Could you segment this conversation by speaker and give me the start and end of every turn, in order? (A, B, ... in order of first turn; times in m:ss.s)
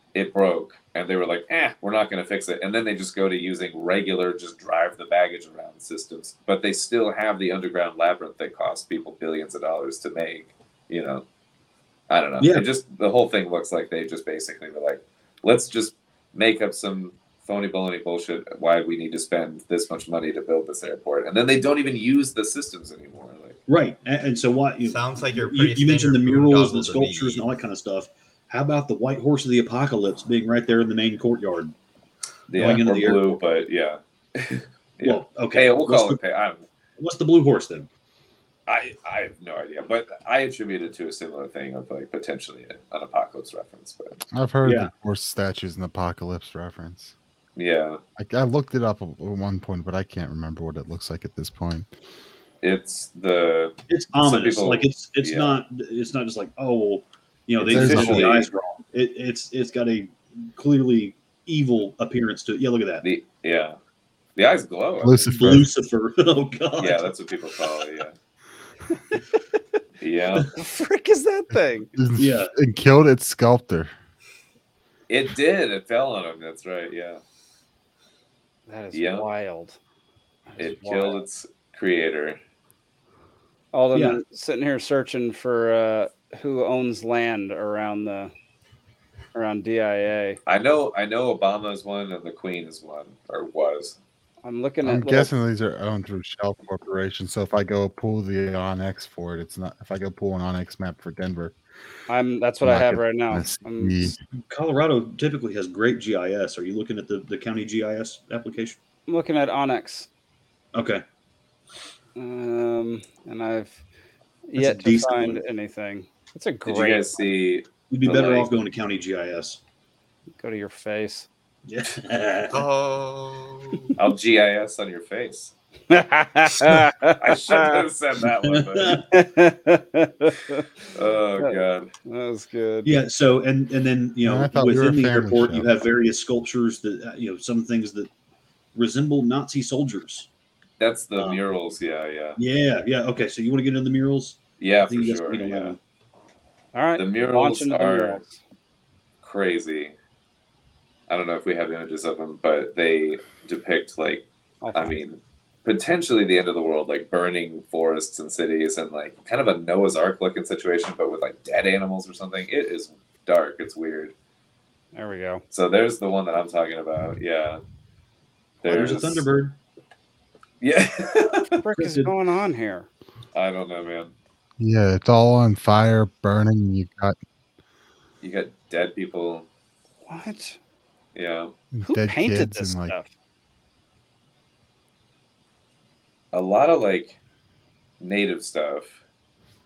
0:00.1-0:11.2 A
0:12.1-0:23.6 A
0:12.4-0:12.6 B
0:23.7-0:31.7 B
0:24.8-0:27.5 C
0:32.5-0:36.6 A
0:32.5-0:33.2 B
0:35.0-0:36.2 B
0:37.0-0:37.9 B
0:38.7-0:44.2 A
0:44.3-0:47.1 D
0:44.6-0:44.9 B
0:47.6-0:48.0 A
0:48.2-0:51.9 D
0:52.6-0:55.6 A
0:53.9-1:03.0 B
0:57.6-0:58.5 A
0:57.6-0:58.4 D
1:03.0-1:03.8 A
1:04.4-1:05.5 A
1:05.0-1:05.7 D
1:05.3-1:07.1 B
1:06.8-1:08.1 A
1:10.0-1:10.5 A
1:10.6-1:11.9 E
1:11.5-1:13.9 D
1:12.2-1:12.5 B
1:15.1-1:17.2 A
1:18.7-1:19.8 E
1:18.9-1:19.3 A
1:20.5-1:21.2 E
1:20.6-1:22.4 A
1:23.7-1:28.3 E
1:23.9-1:24.2 B
1:29.3-1:30.4 E
1:30.4-1:34.0 A
1:34.4-1:35.3 E
1:34.8-1:41.5 D
1:42.1-1:44.1 E
1:42.6-1:44.2 D
1:44.4-1:48.8 B
1:49.1-1:50.1 E
1:50.7-1:51.0 B
1:52.2-1:53.8 E
1:54.5-1:57.1 E
1:54.6-1:55.4 B
1:56.6-1:58.5 A
1:57.9-1:59.6 B
2:00.4-2:01.3 E
2:01.6-2:02.6 B
2:02.5-2:03.9 C
2:04.0-2:05.5 A
2:05.9-2:07.7 E
2:07.2-2:09.0 A
2:08.4-2:09.0 B
2:09.1-2:10.7 E
2:10.9-2:11.9 A
2:11.4-2:13.0 E
2:12.8-2:18.1 B
2:14.2-2:15.7 D
2:18.7-2:20.3 B
2:20.8-2:22.4 A
2:22.4-2:25.8 B
2:24.6-2:25.8 A
2:26.7-2:28.4 E
2:27.0-2:28.2 A
2:29.2-2:29.9 A
2:31.1-2:44.1 A
2:34.6-2:35.0 E
2:44.9-2:45.4 E
2:45.5-2:47.6 A
2:48.6-2:49.2 A
2:48.6-2:49.6 B
2:50.6-2:51.5 A
2:51.5-2:52.9 E
2:51.8-2:52.1 B
2:53.3-2:54.1 A
2:54.6-2:57.2 D
2:58.2-2:59.4 A
3:00.0-3:00.6 E
3:01.1-3:01.5 A
3:01.7-3:03.0 D
3:01.8-3:03.1 E
3:06.3-3:07.2 A
3:08.0-3:09.0 A